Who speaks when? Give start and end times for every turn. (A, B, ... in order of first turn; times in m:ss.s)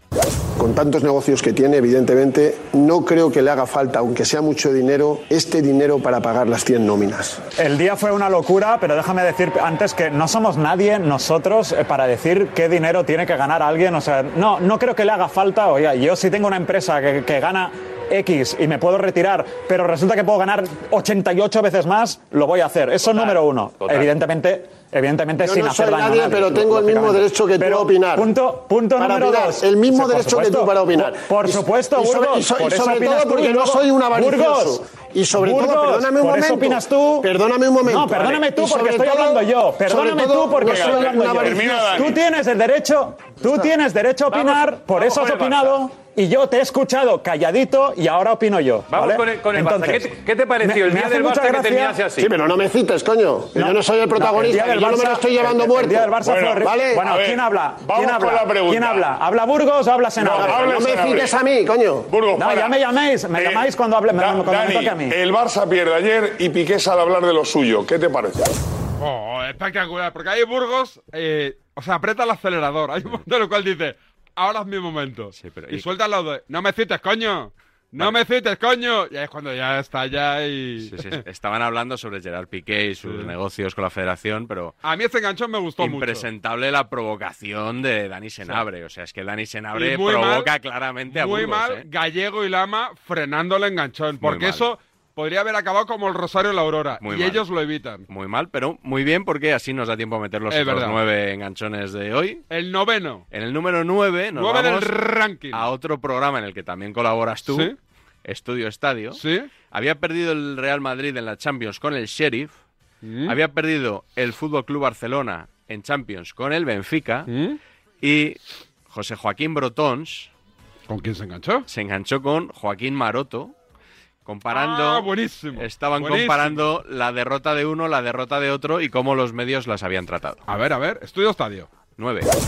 0:00.6-0:07.4 A
0:07.6-0:34.8 B
0:25.4-0:28.3 A
0:29.0-0:42.1 A
0:35.4-0:37.3 B
0:37.8-0:52.1 B
0:43.4-0:43.7 A
0:44.3-0:45.8 C
0:48.9-0:52.3 C
0:52.2-0:57.0 A
0:54.2-0:54.5 C
0:54.3-1:00.7 B
1:00.6-1:02.1 A
1:02.4-1:05.2 B
1:05.7-1:08.2 D
1:09.0-1:21.2 E
1:15.4-1:15.9 F
1:20.8-1:24.8 F
1:23.0-1:23.3 E
1:24.8-1:26.2 E
1:25.8-1:31.8 F
1:29.7-1:30.5 E
1:31.1-1:38.0 E
1:34.2-1:34.7 F
1:37.0-1:37.4 F
1:38.1-1:42.5 F
1:40.5-1:41.0 E
1:42.5-1:43.2 E
1:43.3-1:44.9 F
1:44.4-1:45.7 E
1:45.5-1:47.7 F
1:47.5-1:47.8 E
1:48.2-1:52.6 F
1:49.2-1:49.5 E
1:53.0-1:53.4 E
1:53.3-1:57.3 F
1:57.3-1:57.6 E
1:58.0-2:00.3 F
2:00.9-2:01.7 E
2:01.7-2:03.5 F
2:04.2-2:10.4 F
2:04.5-2:06.6 E
2:10.5-2:11.7 E
2:12.0-2:12.3 F